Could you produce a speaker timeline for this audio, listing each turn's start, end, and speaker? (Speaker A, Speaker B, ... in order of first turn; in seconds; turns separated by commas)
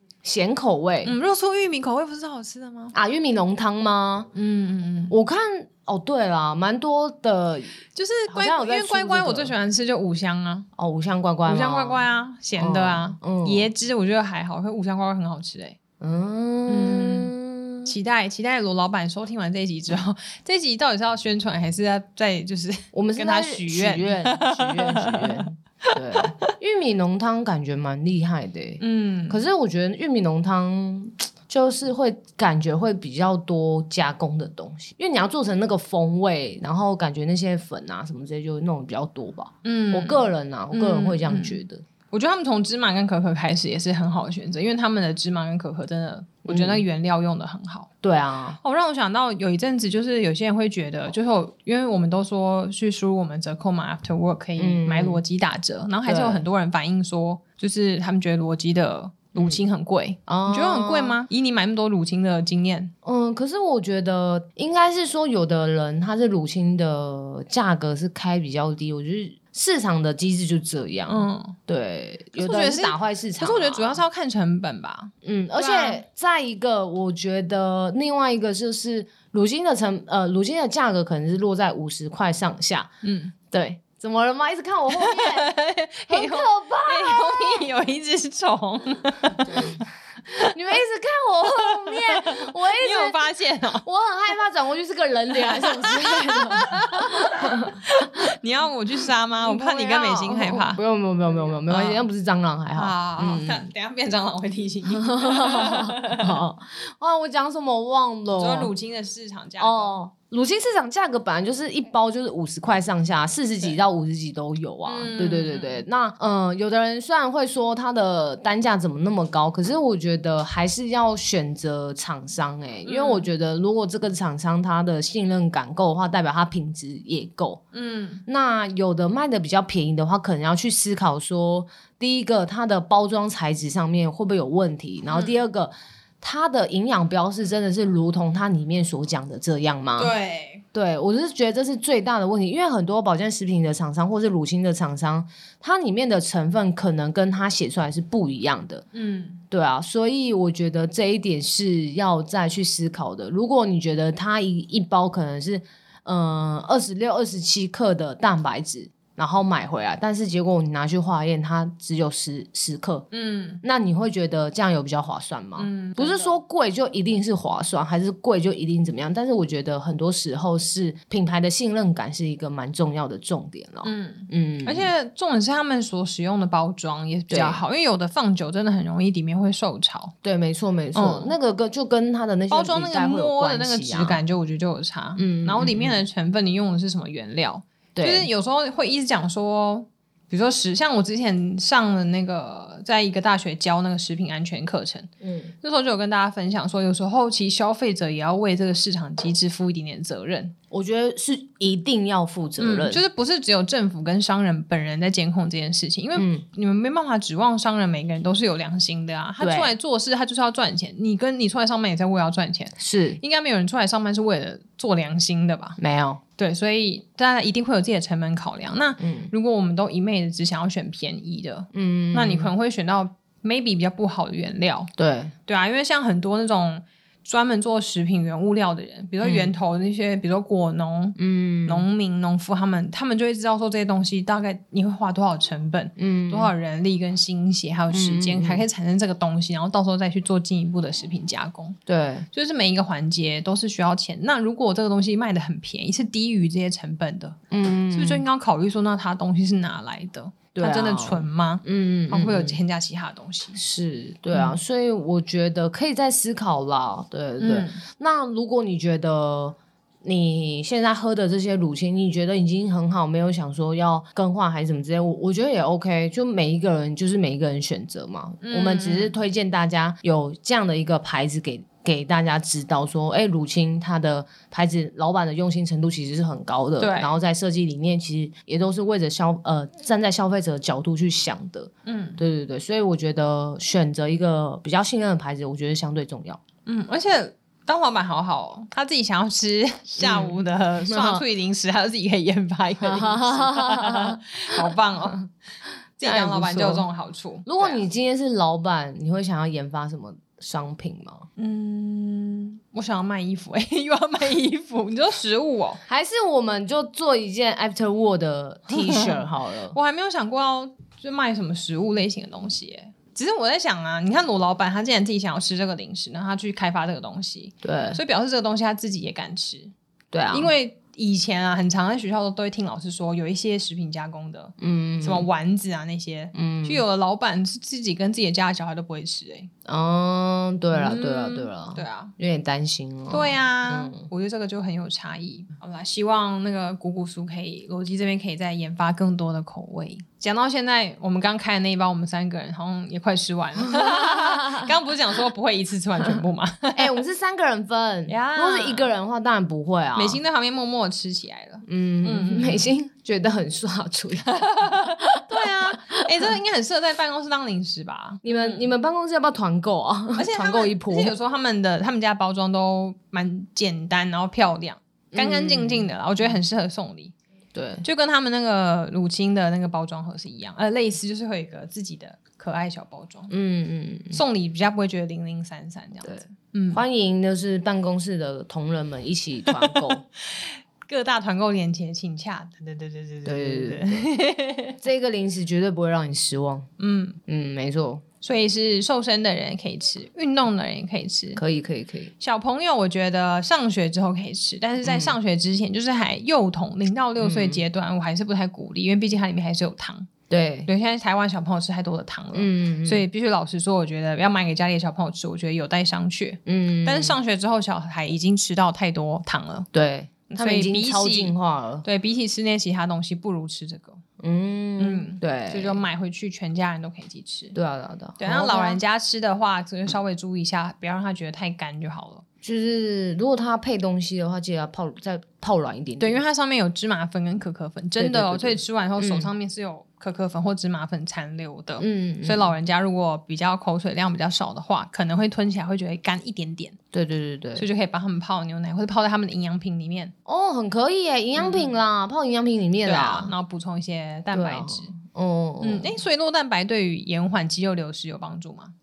Speaker A: 0.2-1.1, Speaker B: 1.0-2.9, Speaker A: 2.9-4.3, Speaker B: 4.3-5.1, Speaker A: 5.1-9.5, Speaker B: 7.9-10.7, Speaker A: 10.8-12.0, Speaker B: 11.5-15.8, Speaker A: 12.6-13.7, Speaker A: 16.0-17.9, Speaker B: 16.7-17.3, Speaker B: 17.9-25.5, Speaker A: 22.9-41.8, Speaker B: 28.8-29.4, Speaker B: 39.6-41.6, Speaker B: 42.1-47.9, Speaker A: 46.5-46.9, Speaker A: 48.0-48.6, Speaker B: 48.6-62.9, Speaker A: 54.6-55.2, Speaker A: 56.0-56.5, Speaker A: 60.3-61.2, Speaker A: 63.0-74.0, Speaker B: 71.1-71.6, Speaker B: 72.3-76.0, Speaker A: 75.2-82.9, Speaker B: 83.0-83.3, Speaker A: 83.5-85.5, Speaker B: 84.9-90.5, Speaker A: 86.1-87.7, Speaker A: 89.5-93.2, Speaker B: 91.6-93.8, Speaker A: 93.8-97.8, Speaker B: 95.5-100.8, Speaker A: 99.4-103.7, Speaker B: 101.7-102.1, Speaker B: 102.8-106.4, Speaker A: 104.9-108.7, Speaker B: 108.4-109.9, Speaker A: 109.6-127.6, Speaker B: 114.8-115.8, Speaker B: 122.8-123.3, Speaker B: 127.7-128.2, Speaker A: 128.3-140.1, Speaker B: 135.1-135.4, Speaker B: 140.0-140.6, Speaker A: 140.7-148.8, Speaker B: 148.9-149.4, Speaker A: 149.5-163.1, Speaker B: 163.1-163.6, Speaker A: 163.6-174.9, Speaker B: 165.6-166.4, Speaker B: 173.8-180.1, Speaker A: 177.3-177.6, Speaker A: 180.2-184.2, Speaker B: 180.9-181.3, Speaker B: 182.5-195.1, Speaker A: 185.2-186.0, Speaker A: 188.0-188.3, Speaker A: 195.2-195.5, Speaker B: 195.6-200.6, Speaker A: 200.7-203.0, Speaker B: 202.6-215.8, Speaker A: 206.2-206.4, Speaker A: 209.4-209.7, Speaker A: 212.8-213.2, Speaker A: 215.8-216.2, Speaker B: 216.4-224.9, Speaker A: 219.0-219.3, Speaker A: 221.7-222.5, Speaker A: 225.0-225.3, Speaker B: 225.5-241.8, Speaker A: 229.2-229.5, Speaker A: 231.2-231.9, Speaker A: 236.0-236.5, Speaker A: 237.9-238.7, Speaker A: 241.9-242.3, Speaker B: 242.3-247.4, Speaker A: 247.5-248.2, Speaker B: 247.9-253.6, Speaker A: 250.6-252.6, Speaker A: 253.6-286.4, Speaker B: 254.3-254.6, Speaker B: 257.4-257.8, Speaker B: 268.4-269.1, Speaker B: 276.8-277.2, Speaker B: 281.9-282.2, Speaker B: 286.7-295.2, Speaker A: 290.0-291.2, Speaker A: 292.8-294.8, Speaker B: 296.0-297.8, Speaker A: 296.0-296.9, Speaker A: 297.4-301.3, Speaker B: 301.4-305.8, Speaker A: 305.9-309.8, Speaker B: 308.7-319.7, Speaker A: 317.6-318.0, Speaker A: 320.1-320.5, Speaker B: 320.3-329.5, Speaker A: 324.6-325.3, Speaker A: 326.3-326.8, Speaker A: 329.6-334.1, Speaker B: 330.7-332.1, Speaker B: 333.1-347.0, Speaker A: 343.7-344.7, Speaker A: 346.7-350.2, Speaker B: 348.1-348.9, Speaker B: 349.9-352.7, Speaker A: 351.7-356.3, Speaker B: 354.3-358.7, Speaker A: 358.2-361.1, Speaker B: 360.2-367.1, Speaker A: 365.1-365.9, Speaker A: 367.6-367.9, Speaker B: 367.8-373.3, Speaker A: 373.3-374.2, Speaker B: 374.1-376.8, Speaker A: 376.0-380.0, Speaker B: 379.5-384.8, Speaker A: 383.2-384.1, Speaker A: 384.8-386.7, Speaker B: 386.8-387.2, Speaker A: 387.3-388.0, Speaker B: 388.2-391.4, Speaker A: 391.4-392.1, Speaker B: 392.2-400.1, Speaker A: 394.8-395.2, Speaker A: 397.2-397.6, Speaker A: 400.3-400.7, Speaker B: 400.7-409.7, Speaker A: 402.3-403.1, Speaker A: 406.5-407.2, Speaker A: 409.7-411.9, Speaker B: 410.3-414.0, Speaker A: 414.2-415.8, Speaker B: 414.8-417.6, Speaker A: 417.5-418.8, Speaker B: 418.2-422.2, Speaker A: 422.4-426.2, Speaker B: 426.0-436.8, Speaker A: 428.0-429.3, Speaker A: 431.8-432.5, Speaker A: 436.9-437.7, Speaker B: 437.6-440.1, Speaker A: 440.3-443.3, Speaker B: 441.4-441.7, Speaker B: 442.8-444.9, Speaker A: 444.3-445.9, Speaker B: 445.6-448.8